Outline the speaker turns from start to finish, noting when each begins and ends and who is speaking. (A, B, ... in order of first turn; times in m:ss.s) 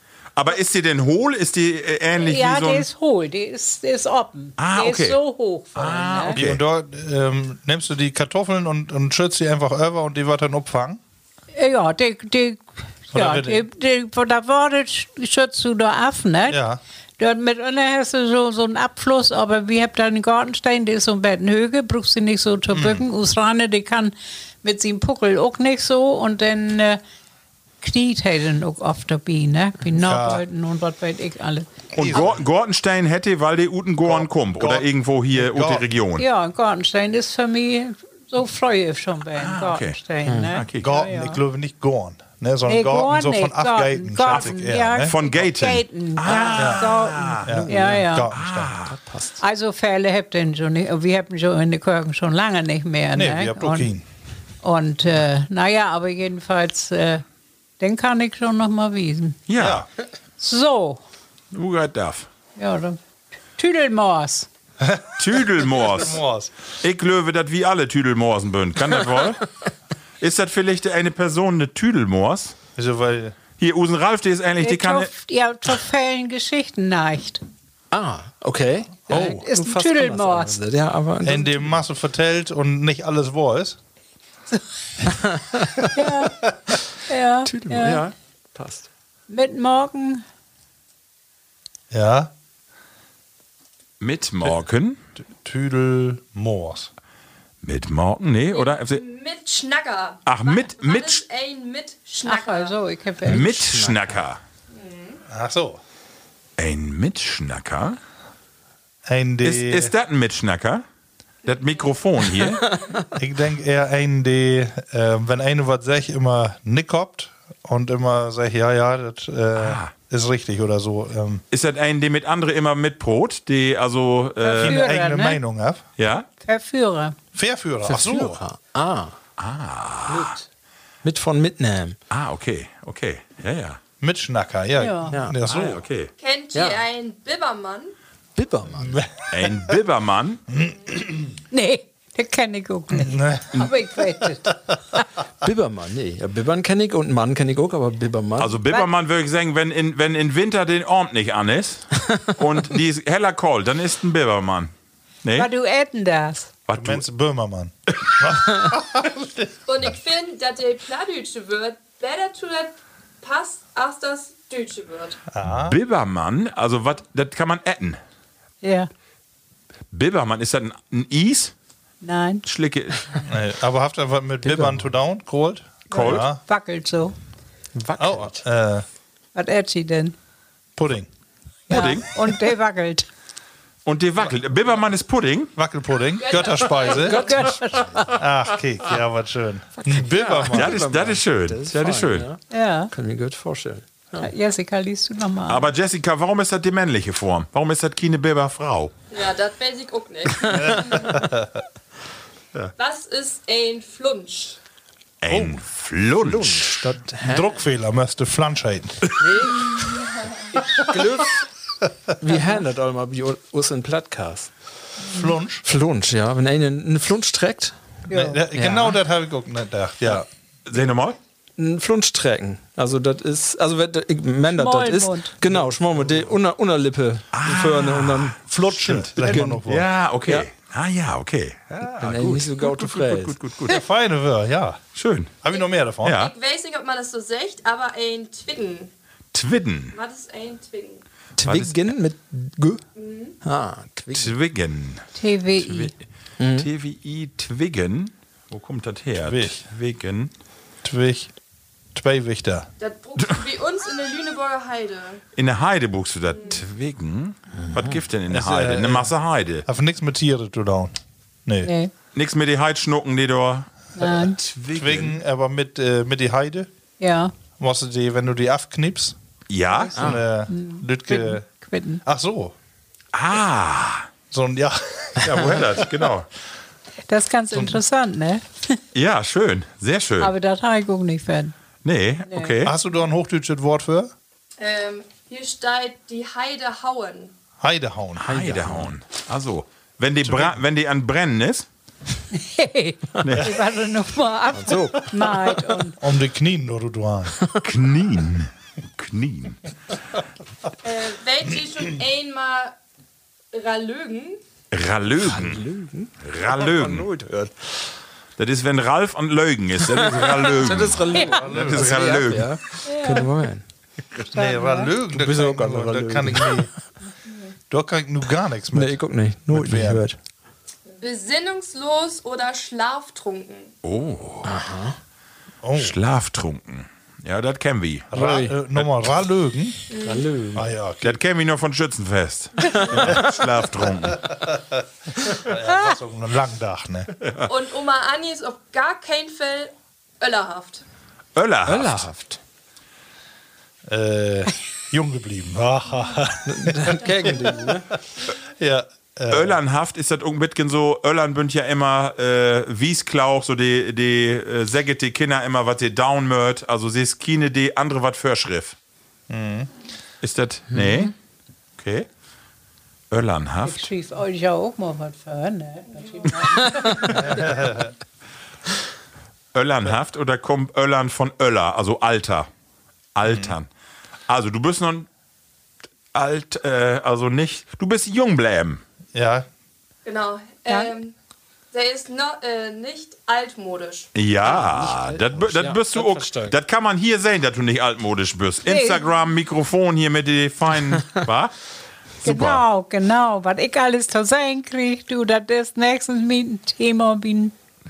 0:00.4-0:02.8 A
0:02.2-0:06.4 B
0:04.6-0:05.2 A
0:05.7-0:06.6 A
0:06.3-0:11.0 C
0:11.6-0:16.6 B
0:13.1-0:13.6 C
0:16.5-0:16.8 C
0:17.2-0:27.0 B
0:22.7-0:23.0 C
0:27.8-0:31.7 B
0:30.0-0:30.4 C
0:31.9-0:36.2 A
0:32.0-0:32.4 C
0:34.0-0:35.9 C
0:36.2-0:41.4 B
0:39.4-0:40.0 A
0:40.2-0:40.6 D
0:40.5-0:40.9 A
0:40.8-0:45.1 C
0:42.6-0:48.3 B
0:45.0-0:47.5 A
0:46.5-0:46.9 C
0:47.4-0:48.1 D
0:47.4-0:48.7 C
0:48.3-0:49.0 A
0:48.9-0:49.4 D
0:49.4-0:53.9 B
0:53.1-0:54.0 C
0:54.6-0:57.2 B
0:57.8-0:59.4 B
0:59.5-0:59.8 A
0:59.6-0:59.8 C
1:00.4-1:01.0 B
1:01.5-1:02.3 A
1:02.6-1:03.0 B
1:03.6-1:04.5 B
1:04.8-1:06.5 C
1:05.2-1:06.2 A
1:06.8-1:09.4 A
1:10.2-1:12.6 A
1:12.8-1:13.4 C
1:13.6-1:15.1 A
1:14.6-1:17.4 B
1:17.9-1:21.7 D
1:19.1-1:19.4 C
1:19.1-1:20.6 B
1:21.2-1:23.8 C
1:25.0-1:25.9 D
1:25.9-1:28.0 B
1:27.5-1:28.9 D
1:29.3-1:30.2 B
1:31.9-1:32.3 C
1:34.0-1:35.0 A
1:35.3-1:36.9 C
1:37.6-1:39.0 A
1:38.5-1:42.7 E
1:40.2-1:41.2 A
1:42.2-1:43.5 B
1:43.2-1:44.1 D
1:43.2-1:44.4 A
1:44.7-1:45.2 E
1:45.3-1:45.8 C
1:46.6-1:48.0 A
1:49.0-1:49.9 C
1:49.4-1:50.8 A
1:51.4-1:52.6 A
1:52.4-1:53.0 D
1:53.1-2:01.4 C
1:59.6-1:59.9 A
2:01.5-2:04.8 A
2:04.4-2:05.4 B
2:04.6-2:05.8 C
2:06.0-2:06.2 A
2:06.4-2:07.2 B
2:07.3-2:08.4 C
2:07.8-2:09.2 D
2:09.4-2:10.4 A
2:10.1-2:10.4 D
2:11.0-2:12.0 D
2:12.1-2:13.8 A
2:14.0-2:15.8 C
2:14.8-2:15.2 B
2:15.1-2:15.4 D
2:15.4-2:16.1 A
2:16.2-2:17.9 E
2:16.5-2:16.8 D
2:18.4-2:19.0 D
2:18.7-2:19.8 C
2:19.3-2:20.4 A
2:20.5-2:21.3 C
2:21.5-2:25.0 B
2:22.9-2:23.7 C
2:25.4-2:28.6 D
2:28.4-2:34.7 A
2:35.4-2:36.5 B
2:36.7-2:37.0 A
2:36.7-2:39.5 C
2:39.7-2:45.2 E
2:45.3-2:45.8 C
2:45.4-2:48.0 A
2:48.6-2:48.9 B
2:49.9-2:51.5 A
2:52.0-2:52.4 B
2:52.4-2:53.0 A
2:53.2-2:56.4 C
2:54.4-2:54.8 D
2:55.9-2:57.1 B
2:55.9-2:56.2 A
2:57.7-2:58.4 D
2:58.0-2:58.8 C
2:59.3-3:00.1 B
3:00.8-3:01.1 C
3:01.7-3:02.1 A
3:01.7-3:03.0 B
3:03.8-3:05.5 A
3:05.6-3:07.3 C
3:06.2-3:07.5 E
3:07.0-3:08.0 D
3:07.0-3:08.2 B
3:08.1-3:10.8 C
3:09.8-3:14.3 D
3:10.5-3:12.3 A
3:12.5-3:12.9 B
3:14.2-3:15.6 B
3:15.5-3:18.9 A
3:19.1-3:21.2 E
3:20.5-3:21.6 C
3:22.8-3:24.6 E
3:25.2-3:26.8 A
3:25.3-3:25.6 C
3:26.2-3:27.5 D
3:27.2-3:29.1 C
3:29.2-3:29.7 D
3:29.6-3:30.4 E
3:30.8-3:31.4 D
3:32.2-3:34.5 D
3:35.1-3:35.6 C
3:35.6-3:37.8 D
3:38.1-3:38.4 B
3:38.1-3:40.2 C
3:38.5-3:39.0 D
3:40.6-3:41.2 A
3:41.6-3:48.4 D
3:44.4-3:45.4 B
3:45.5-3:46.2 C
3:47.3-3:49.1 A
3:48.4-3:49.9 C
3:49.2-3:49.6 D
3:49.6-3:53.8 A
3:52.0-3:53.4 D
3:53.6-3:54.8 C
3:54.9-3:55.3 A
3:55.4-3:56.2 C
3:55.5-3:58.9 E
3:56.0-3:56.3 A
3:59.3-4:00.0 A
3:59.9-4:01.0 E
4:01.4-4:02.8 D
4:01.4-4:01.8 A
4:03.0-4:03.4 E
4:03.4-4:04.3 D
4:04.1-4:05.1 A
4:05.1-4:05.9 B
4:05.6-4:05.9 A
4:06.4-4:06.7 D
4:06.5-4:10.3 A
4:09.2-4:09.6 C
4:10.8-4:11.3 C
4:11.9-4:12.7 C
4:12.8-4:15.2 E
4:15.4-4:19.6 A
4:16.3-4:16.6 E
4:17.6-4:18.0 D
4:18.3-4:19.1 C
4:19.6-4:21.7 C
4:21.6-4:21.9 B
4:22.1-4:25.2 A
4:24.0-4:24.4 B
4:24.7-4:26.7 C
4:27.0-4:27.3 B
4:27.6-4:29.2 C
4:29.5-4:30.1 A
4:29.7-4:32.0 B
4:29.9-4:31.4 C
4:32.0-4:32.5 C
4:33.1-4:34.1 A
4:34.3-4:36.1 C
4:35.2-4:36.3 A
4:37.1-4:38.8 B
4:37.5-4:37.8 C
4:38.9-4:40.3 A
4:40.2-4:41.5 B
4:41.8-4:42.7 A
4:42.3-4:42.5 B
4:42.6-4:44.1 C
4:44.6-4:47.3 E
4:47.6-4:48.4 C
4:48.2-4:51.7 A
4:48.3-4:48.9 D
4:50.2-4:50.6 C
4:52.3-4:56.0 B
4:53.2-4:53.5 A
4:54.5-4:55.5 D
4:56.0-4:57.4 C
4:57.6-4:59.6 A
5:00.8-5:02.7 E
5:03.5-5:04.4 E
5:04.7-5:05.6 A
5:05.2-5:07.5 D
5:06.2-5:07.1 A
5:08.4-5:12.5 A
5:09.9-5:13.6 D
5:11.1-5:11.4 B
5:11.2-5:12.3 C
5:12.8-5:13.3 B
5:14.3-5:16.7 C
5:14.3-5:14.9 B
5:15.1-5:16.6 D
5:17.7-5:20.0 C
5:18.7-5:20.2 D
5:20.9-5:23.7 E
5:23.8-5:24.6 A
5:24.4-5:25.0 D
5:25.6-5:25.9 C
5:25.8-5:28.1 A
5:28.1-5:29.8 C
5:28.1-5:28.5 D
5:29.9-5:30.3 E
5:30.0-5:30.7 D
5:30.5-5:31.2 C
5:31.0-5:34.3 A
5:32.9-5:33.2 D
5:34.3-5:37.1 C
5:35.7-5:35.9 B
5:37.2-5:37.5 A
5:37.4-5:40.8 E
5:41.4-5:42.1 A
5:41.7-5:42.4 D
5:43.8-5:47.5 C
5:46.4-5:48.0 D
5:48.4-5:49.6 C
5:49.3-5:58.8 A
5:59.3-5:59.7 C
6:00.2-6:01.1 A
6:00.7-6:01.0 D
6:01.8-6:02.1 A
6:03.1-6:03.9 A
6:03.6-6:07.7 B
6:07.1-6:07.9 C
6:09.5-6:12.5 A
6:13.1-6:13.7 A
6:13.2-6:13.5 C
6:14.3-6:15.1 A
6:16.1-6:18.8 A
6:19.1-6:19.5 C
6:20.0-6:21.1 E
6:21.7-6:24.1 E
6:24.1-6:31.5 A
6:24.4-6:26.5 D
6:28.6-6:29.0 B
6:32.2-6:32.6 A
6:32.2-6:37.5 B